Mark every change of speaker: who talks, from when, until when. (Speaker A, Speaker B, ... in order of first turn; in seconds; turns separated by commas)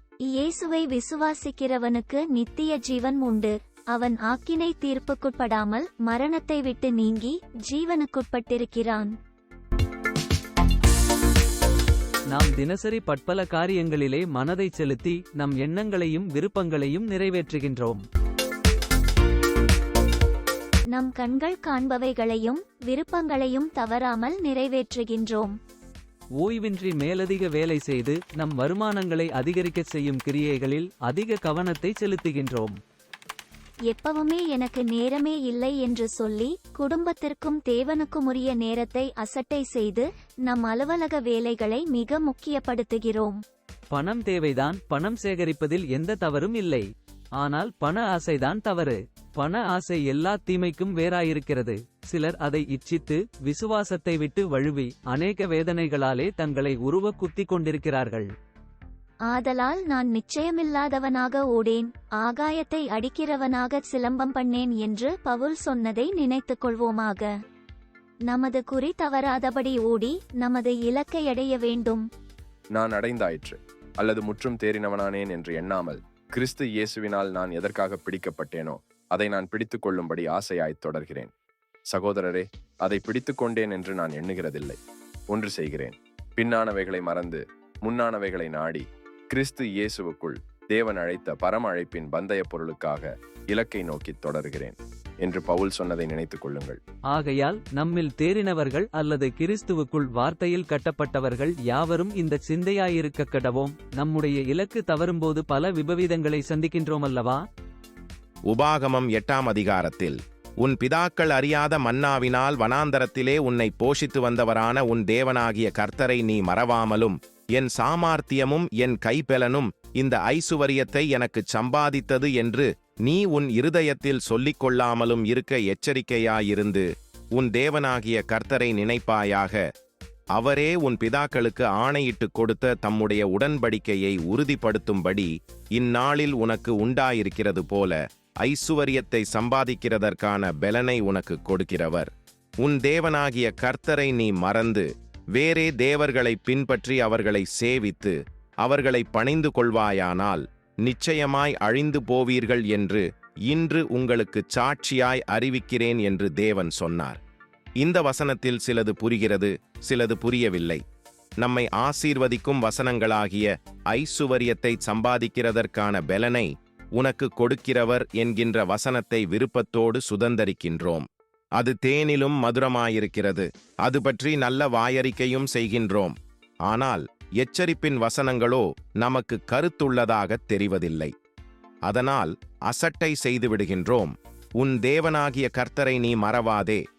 Speaker A: 0.3-9.1, Speaker B: 12.3-18.0, Speaker A: 20.9-25.6, Speaker B: 26.4-32.8, Speaker A: 33.9-43.4, Speaker B: 43.9-46.9, Speaker B: 47.4-58.3, Speaker A: 59.3-67.3, Speaker A: 68.3-72.0, Speaker C: 72.7-81.3, Speaker C: 81.9-84.8, Speaker C: 85.3-96.8, Speaker B: 97.1-107.4, Speaker D: 108.5-129.6, Speaker D: 130.3-142.1, Speaker D: 142.6-157.2, Speaker D: 157.8-160.8, Speaker D: 161.4-176.1, Speaker D: 176.7-181.1, Speaker D: 181.8-186.8